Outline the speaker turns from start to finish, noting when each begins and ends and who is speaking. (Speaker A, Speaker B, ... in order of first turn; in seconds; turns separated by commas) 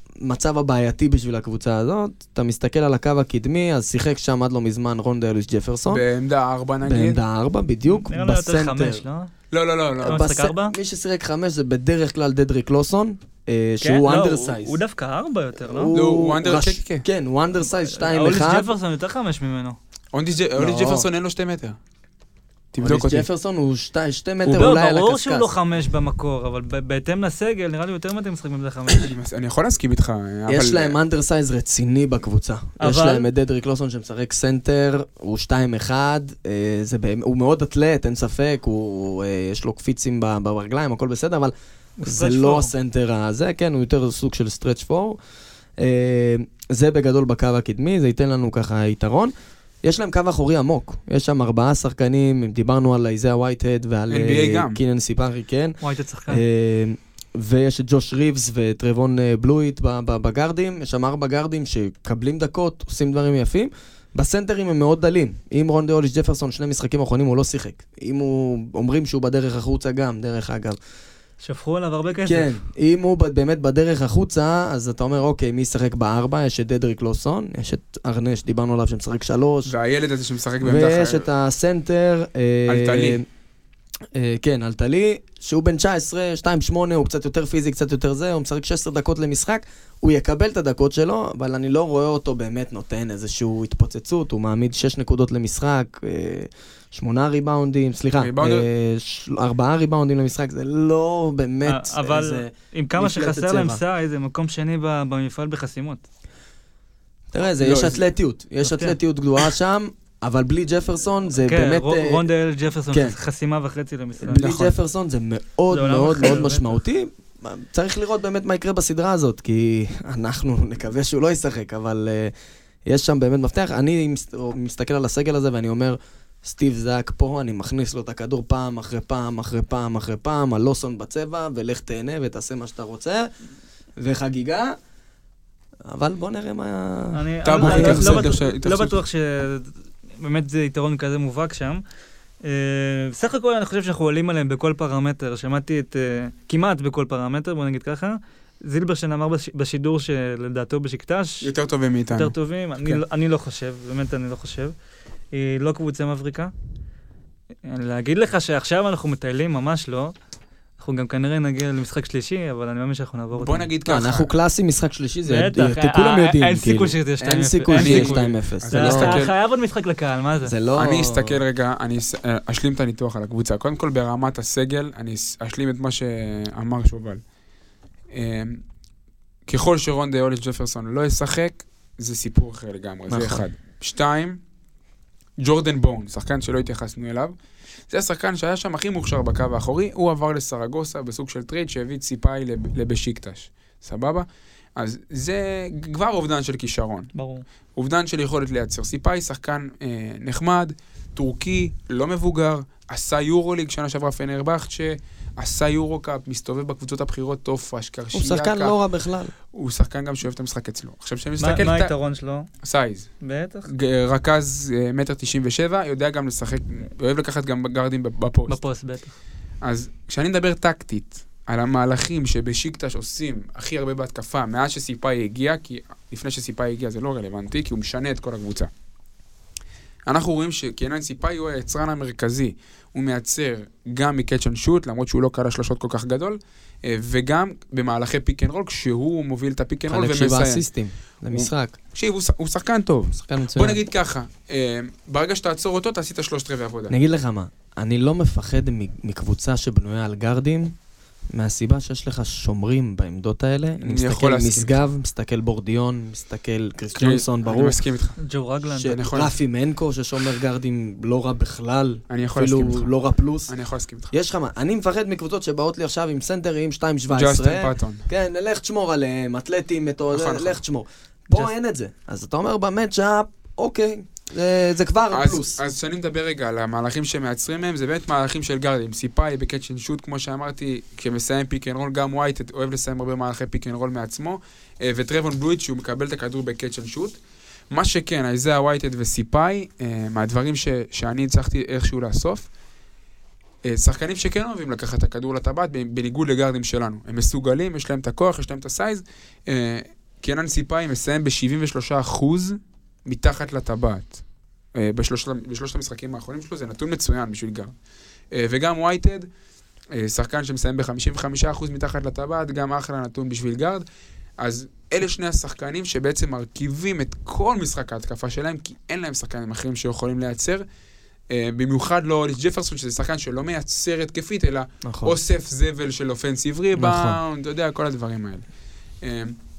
Speaker A: 0.2-6.0, Speaker B: 5.9-7.2, Speaker A: 6.8-9.0, Speaker C: 7.9-9.3, Speaker B: 9.5-10.2, Speaker C: 10.0-10.7, Speaker A: 10.1-14.8, Speaker C: 13.8-15.9, Speaker A: 15.6-18.7, Speaker B: 15.9-17.0, Speaker C: 17.9-19.8, Speaker B: 20.1-21.8, Speaker A: 20.6-21.1, Speaker B: 22.7-23.2, Speaker A: 22.8-25.5, Speaker B: 24.4-24.7, Speaker C: 24.5-29.1, Speaker B: 28.9-30.9, Speaker A: 30.5-45.2, Speaker C: 32.8-33.3, Speaker C: 42.0-42.7, Speaker A: 45.8-49.3, Speaker A: 49.8-70.8, Speaker B: 54.1-54.8, Speaker C: 55.8-56.4, Speaker C: 71.4-72.5, Speaker A: 72.2-79.7, Speaker B: 79.7-81.2, Speaker A: 80.6-83.2, Speaker B: 82.7-83.2, Speaker A: 84.1-103.8, Speaker B: 98.2-98.7, Speaker C: 101.7-106.0, Speaker A: 107.3-112.2, Speaker B: 107.6-108.0, Speaker C: 108.6-109.0, Speaker C: 111.5-114.5, Speaker A: 114.2-122.3, Speaker B: 114.3-114.7, Speaker C: 115.7-116.8, Speaker A: 122.8-133.3, Speaker A: 134.0-134.8, Speaker A: 135.9-138.3, Speaker C: 137.1-141.8, Speaker B: 137.4-139.0, Speaker C: 142.4-151.5, Speaker B: 151.4-153.0, Speaker C: 152.1-154.7, Speaker C: 155.3-156.5, Speaker C: 157.6-160.1, Speaker C: 160.8-163.7, Speaker B: 163.4-164.3, Speaker A: 163.8-169.2, Speaker C: 165.3-170.5, Speaker B: 167.7-169.3, Speaker A: 170.4-171.4, Speaker B: 170.8-177.2, Speaker B: 178.1-178.6, Speaker B: 179.4-184.4, Speaker A: 183.1-183.4, Speaker B: 185.4-187.3, Speaker B: 187.9-197.1, Speaker C: 197.1-197.4, Speaker B: 197.8-208.7, Speaker A: 208.1-209.3, Speaker B: 209.5-211.9, Speaker C: 211.4-212.5, Speaker B: 212.6-213.1, Speaker C: 213.2-213.7, Speaker B: 213.7-218.6, Speaker C: 218.5-219.2, Speaker B: 219.6-228.7, Speaker B: 230.1-240.6, Speaker A: 239.9-241.8, Speaker B: 241.3-246.9, Speaker A: 243.2-243.8, Speaker A: 246.9-250.7, Speaker A: 251.3-257.8, Speaker B: 253.8-254.8, Speaker B: 256.9-258.2, Speaker C: 258.2-258.9, Speaker A: 258.7-263.5, Speaker B: 258.9-259.3, Speaker B: 262.1-262.9, Speaker B: 263.5-264.1, Speaker A: 264.1-275.6, Speaker B: 267.1-268.1, Speaker B: 270.1-270.6, Speaker B: 275.1-287.2, Speaker B: 287.7-292.5, Speaker B: 293.6-304.2, Speaker B: 304.7-307.7, Speaker B: 308.3-309.3, Speaker B: 309.9-313.8, Speaker B: 314.4-320.6, Speaker B: 321.3-328.5, Speaker A: 324.8-325.1, Speaker A: 326.8-327.2, Speaker B: 329.0-329.3